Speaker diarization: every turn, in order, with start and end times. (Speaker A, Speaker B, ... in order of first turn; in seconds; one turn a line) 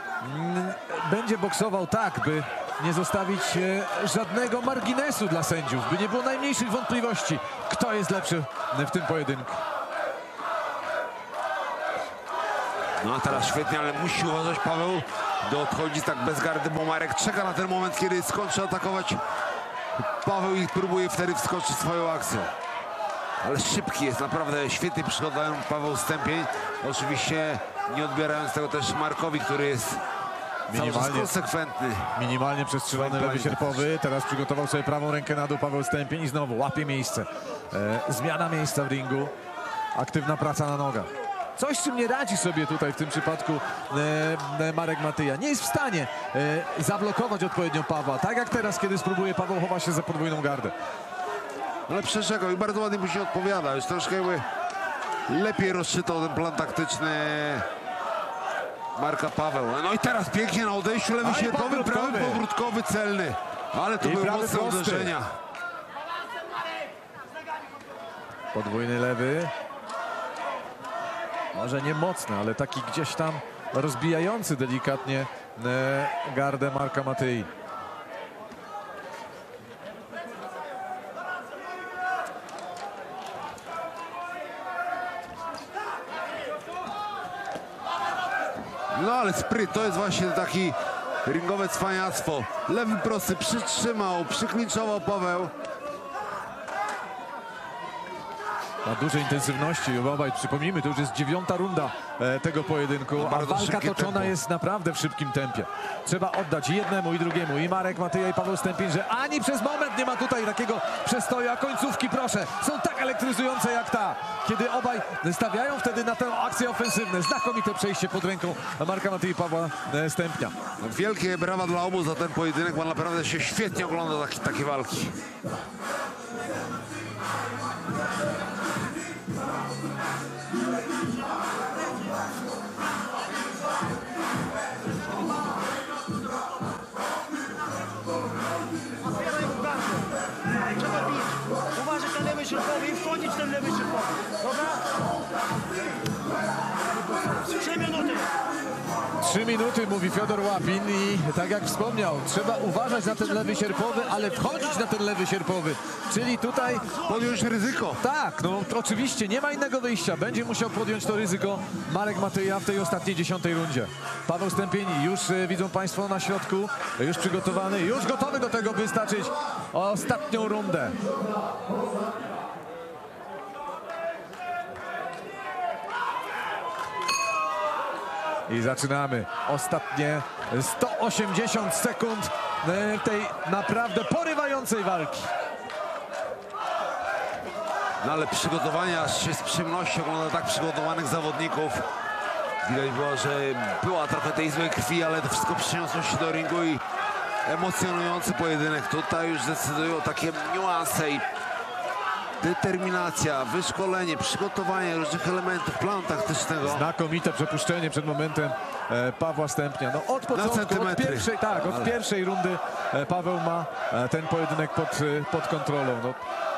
Speaker A: 0.2-9.6
Speaker B: 13.0-19.2
Speaker B: 20.0-22.5
Speaker B: 23.4-30.0
Speaker A: 30.7-31.3
Speaker B: 30.7-32.1
Speaker A: 32.1-39.3
Speaker B: 32.9-33.8
Speaker A: 39.9-50.7
Speaker B: 51.9-54.5
Speaker B: 55.3-57.6
Speaker B: 58.9-65.3
Speaker A: 61.2-62.4
Speaker A: 64.0-65.1
Speaker A: 68.5-69.5
Speaker A: 71.5-77.5
Speaker B: 88.9-95.5
Speaker A: 98.8-120.5
Speaker B: 103.2-104.3
Speaker B: 120.8-125.2
Speaker C: 139.0-140.1
Speaker C: 140.8-144.8
Speaker C: 147.1-148.3
Speaker A: 149.2-156.9
Speaker C: 153.1-154.8
Speaker C: 156.9-157.2
Speaker B: 157.0-158.0
Speaker A: 158.0-171.0
Speaker A: 178.5-185.3
Speaker B: 188.0-191.9
Speaker B: 192.6-196.8
Speaker B: 197.4-201.2
Speaker B: 202.4-206.9
Speaker A: 206.6-216.2
Speaker B: 210.3-211.9